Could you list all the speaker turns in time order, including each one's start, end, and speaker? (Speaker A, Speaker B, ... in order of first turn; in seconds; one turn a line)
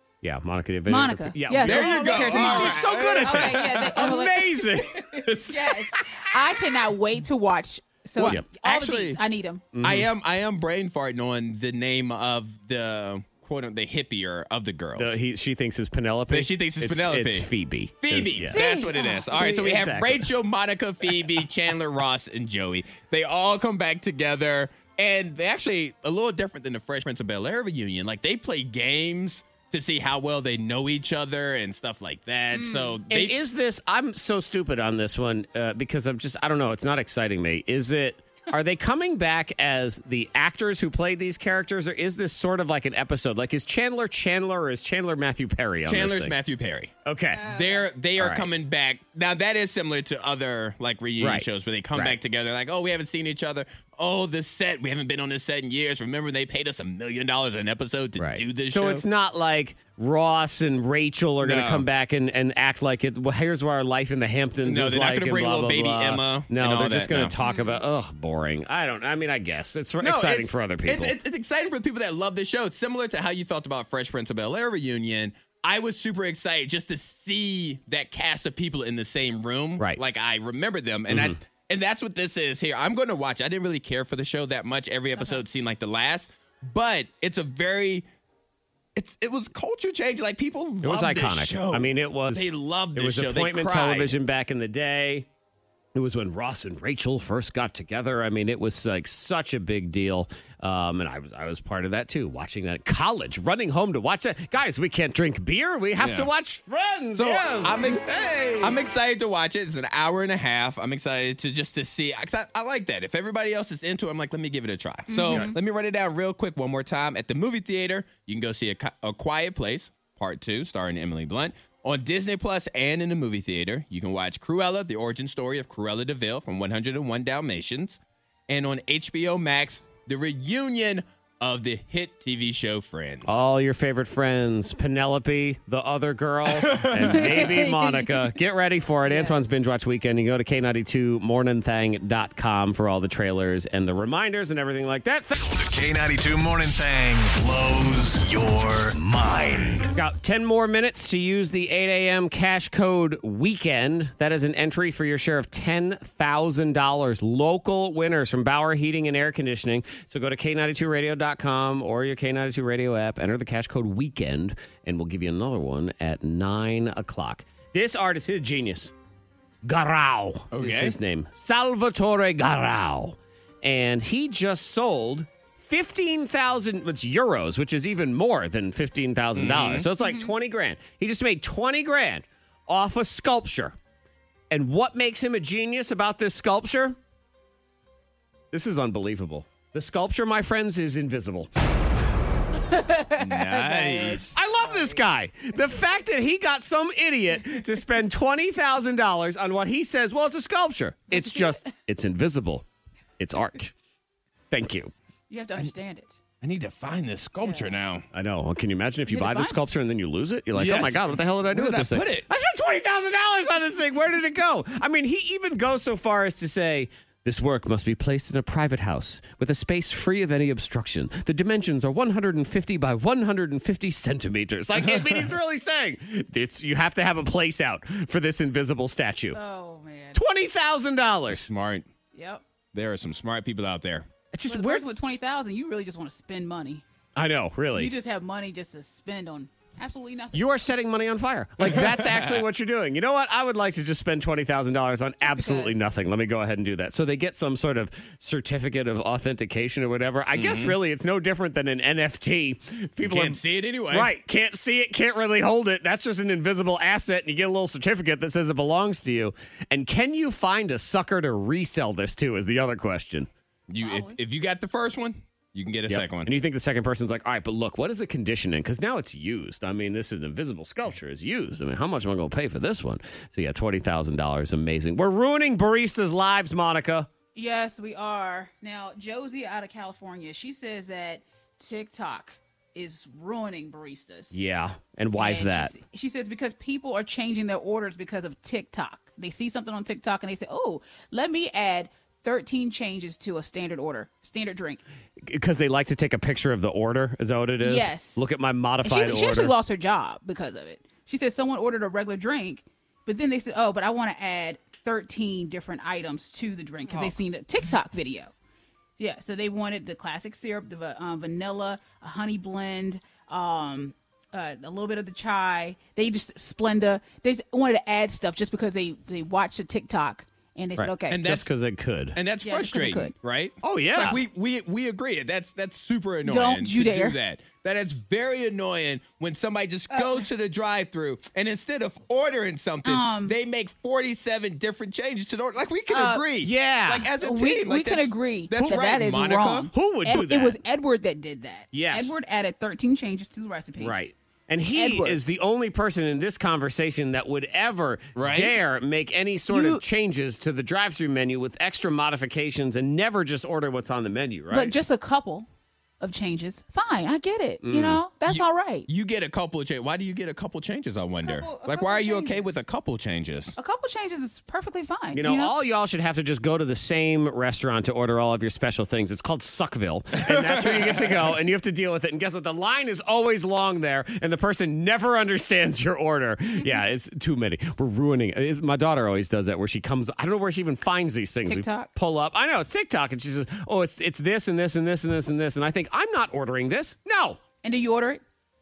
Speaker A: 0.2-6.3
Speaker B: 0.9-9.7
Speaker C: 1.6-4.1
Speaker C: 8.2-9.2
Speaker A: 8.2-8.5
Speaker A: 9.7-10.1
Speaker C: 9.8-15.2
Speaker A: 15.0-18.6
Speaker C: 16.3-17.5
Speaker C: 18.0-33.4
Speaker B: 18.5-19.5
Speaker A: 19.3-20.3
Speaker B: 32.5-33.0
Speaker A: 33.1-46.4
Speaker C: 45.9-59.1
Speaker A: 47.0-47.5
Speaker B: 47.3-47.9
Speaker A: 48.2-48.5
Speaker A: 51.2-52.2
Speaker A: 58.2-71.2
Speaker C: 61.4-61.9
Speaker C: 64.6-67.3
Speaker B: 67.4-67.8
Speaker C: 70.0-88.0
Speaker A: 81.1-81.4
Speaker B: 85.2-85.4
Speaker C: 89.0-94.2
Speaker A: 90.8-95.3
Speaker A: 96.0-108.8
Speaker C: 106.0-106.3
Speaker C: 107.2-108.0
Speaker C: 108.6-133.4
Speaker B: 115.1-115.5
Speaker A: 133.2-145.5
Speaker C: 136.5-137.5
Speaker B: 137.0-138.3
Speaker B: 139.1-139.4
Speaker D: 145.5-149.9
Speaker A: 149.9-168.9
Speaker A: 169.6-183.8
Speaker C: 170.5-171.0
Speaker C: 179.3-179.9
Speaker B: 180.0-180.3
Speaker A: 184.5-187.0
Speaker A: 188.5-191.5
Speaker B: 192.6-195.0
Speaker C: 193.2-194.3
Speaker A: 194.3-202.7
Speaker B: 195.5-195.8
Speaker B: 201.1-201.6
Speaker A: 203.2-203.7
Speaker A: 204.5-204.9
Speaker B: 205.3-206.2
Speaker C: 206.4-208.1
Speaker B: 207.4-207.8
Speaker A: 208.1-229.4
Speaker B: 209.1-209.6
Speaker C: 210.5-212.3
Speaker C: 224.8-225.3
Speaker B: 229.3-230.2
Speaker A: 230.1-231.5
Speaker C: 231.3-231.9
Speaker B: 232.1-232.4
Speaker C: 232.7-234.1
Speaker A: 234.3-234.8
Speaker B: 234.5-236.8
Speaker A: 237.2-237.9
Speaker B: 237.8-240.5
Speaker A: 240.3-263.3
Speaker C: 241.6-242.4
Speaker B: 245.2-245.8
Speaker C: 250.3-250.8
Speaker C: 253.0-254.1
Speaker C: 263.7-266.3
Speaker B: 263.8-264.2
Speaker A: 265.9-277.1
Speaker B: 277.4-284.4
Speaker A: 284.3-285.8
Speaker B: 285.2-294.8
Speaker A: 295.2-299.6
Speaker B: 297.6-308.3
Speaker B: 309.0-321.2
Speaker A: 320.8-322.2
Speaker C: 321.1-321.5
Speaker C: 322.1-339.7
Speaker B: 322.4-323.1
Speaker A: 323.6-324.2
Speaker B: 326.2-327.2
Speaker B: 329.9-330.3
Speaker B: 332.9-333.4
Speaker B: 335.9-336.3
Speaker A: 336.4-337.1
Speaker B: 337.2-344.0
Speaker A: 339.7-340.6
Speaker A: 341.7-342.1
Speaker A: 343.8-354.8
Speaker B: 344.8-345.2
Speaker C: 348.1-348.6
Speaker B: 349.5-349.8
Speaker B: 354.5-355.5
Speaker B: 356.0-358.9
Speaker A: 357.6-358.0
Speaker C: 358.3-363.6
Speaker B: 361.2-362.6
Speaker B: 363.6-365.5
Speaker A: 365.1-387.4
Speaker C: 370.2-371.3
Speaker B: 381.5-381.9
Speaker B: 387.6-388.2